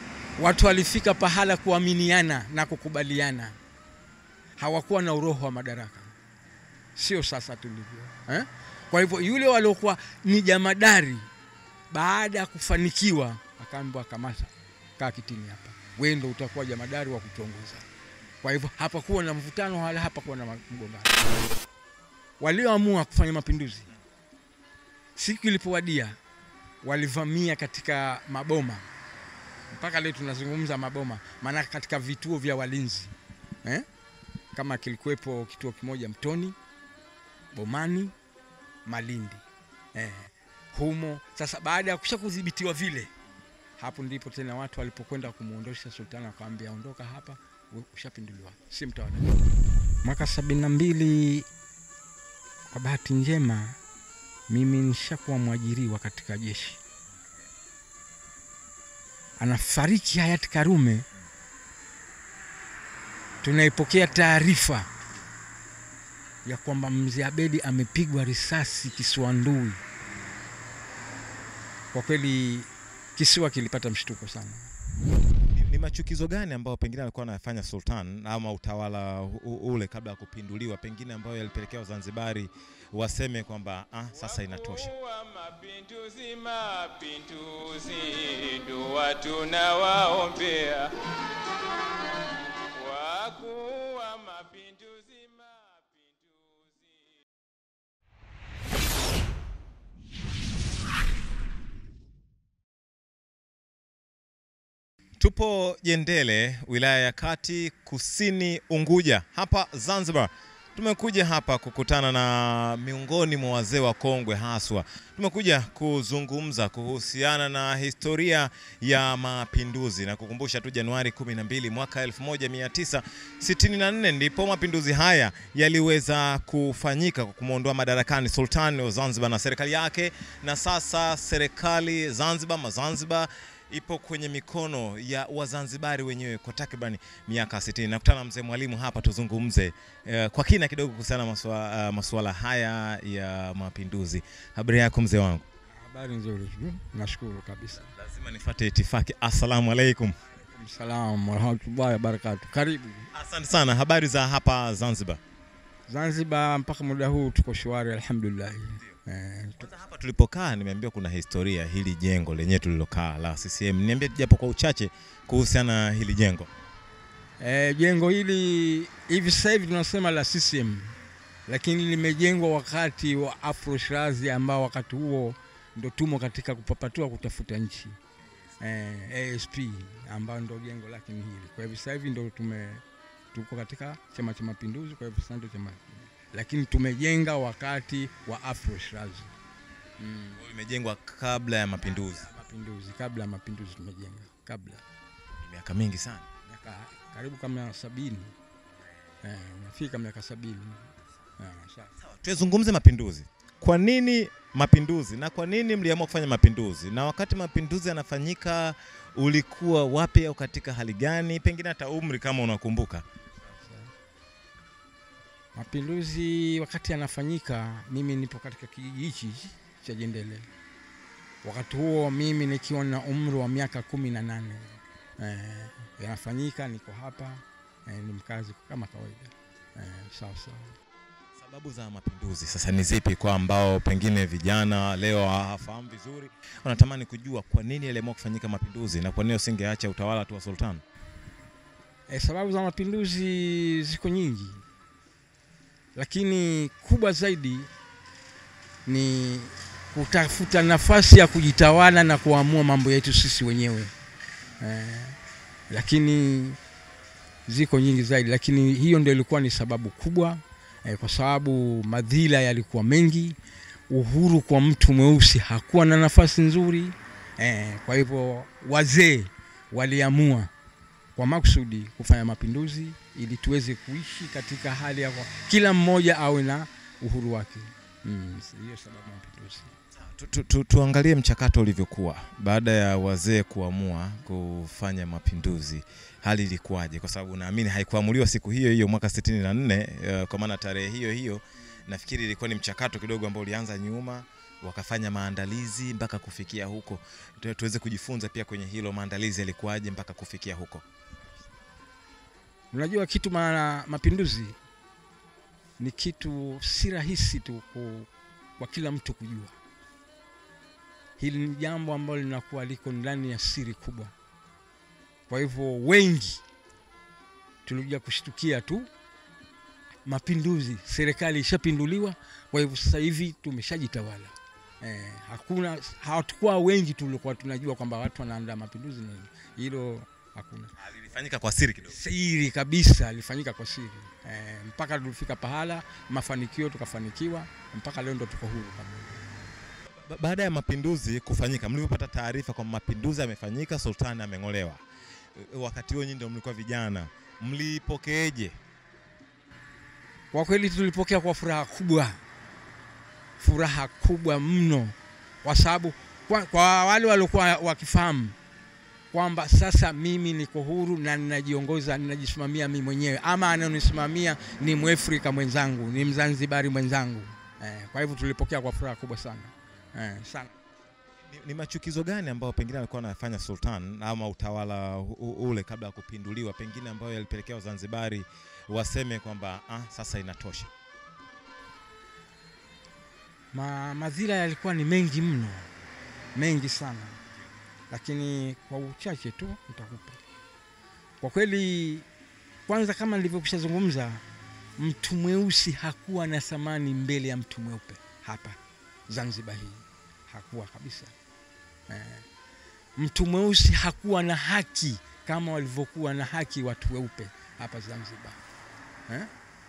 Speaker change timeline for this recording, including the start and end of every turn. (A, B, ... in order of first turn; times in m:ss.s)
0:00.4-0:03.6 A
0:04.6-0:06.1 A
0:07.0-0:11.3 A
0:11.9-0:17.9 A
0:18.4-0:21.2 A
0:22.4-0:23.9 A
0:25.2-0:26.2 A
0:26.8-0:28.9 A
0:29.7-0:33.1 A
0:34.5-0:36.6 A
0:37.5-0:38.1 A
0:38.9-0:39.4 A
0:39.9-0:43.1 A
0:43.8-0:49.3 A
0:50.0-0:51.5 A
0:52.7-0:53.8 A
0:54.5-0:56.8 A
0:57.2-0:57.4 B
0:59.4-1:01.0 A
1:03.4-1:04.9 A
1:06.4-1:09.8 A
1:11.9-1:14.7 A
1:15.5-1:24.9 B
1:24.1-1:31.0 C
1:32.7-1:37.2 C
1:45.2-2:25.4 B
2:25.8-2:27.9 A
2:27.9-2:30.2 B
2:30.5-2:33.1 A
2:33.1-2:35.2 B
2:35.9-2:39.6 A
2:39.6-2:46.5 B
2:47.4-2:51.0 A
2:51.5-2:58.0 A
2:58.6-3:09.3 A
3:10.0-3:10.4 A
3:10.4-3:12.3 B
3:11.8-3:14.8 A
3:15.4-3:16.3 B
3:16.5-3:18.4 A
3:19.2-3:21.9 A
3:22.0-3:33.0 B
3:33.5-3:33.9 A
3:35.6-3:40.5 A
3:41.4-3:50.7 A
3:51.3-4:00.8 B
4:02.1-4:04.6 A
4:05.9-4:07.7 A
4:08.8-4:13.9 A
4:14.6-4:15.2 A
4:15.7-4:16.6 A
4:17.5-4:23.4 A
4:23.9-4:30.5 A
4:31.1-4:39.7 A
4:39.9-5:00.8 B
5:02.7-5:04.6 A
5:05.8-5:09.6 A
5:11.2-5:14.1 A
5:15.3-5:16.4 A
5:17.6-5:18.9 A
5:20.0-5:30.7 A
5:30.8-5:32.0 B
5:31.9-5:39.3 A
5:39.9-5:44.8 B
5:45.3-5:48.6 B
5:50.3-5:52.2 A
5:53.4-5:58.4 A
5:59.1-6:10.5 A
6:11.3-6:20.7 B
6:23.5-6:25.7 A
6:26.3-6:27.2 A
6:27.9-6:30.2 A
6:31.2-6:32.0 A
6:32.7-6:34.2 A
6:34.8-6:38.6 A
6:39.1-6:41.1 A
6:41.9-6:42.2 A
6:43.0-6:48.4 A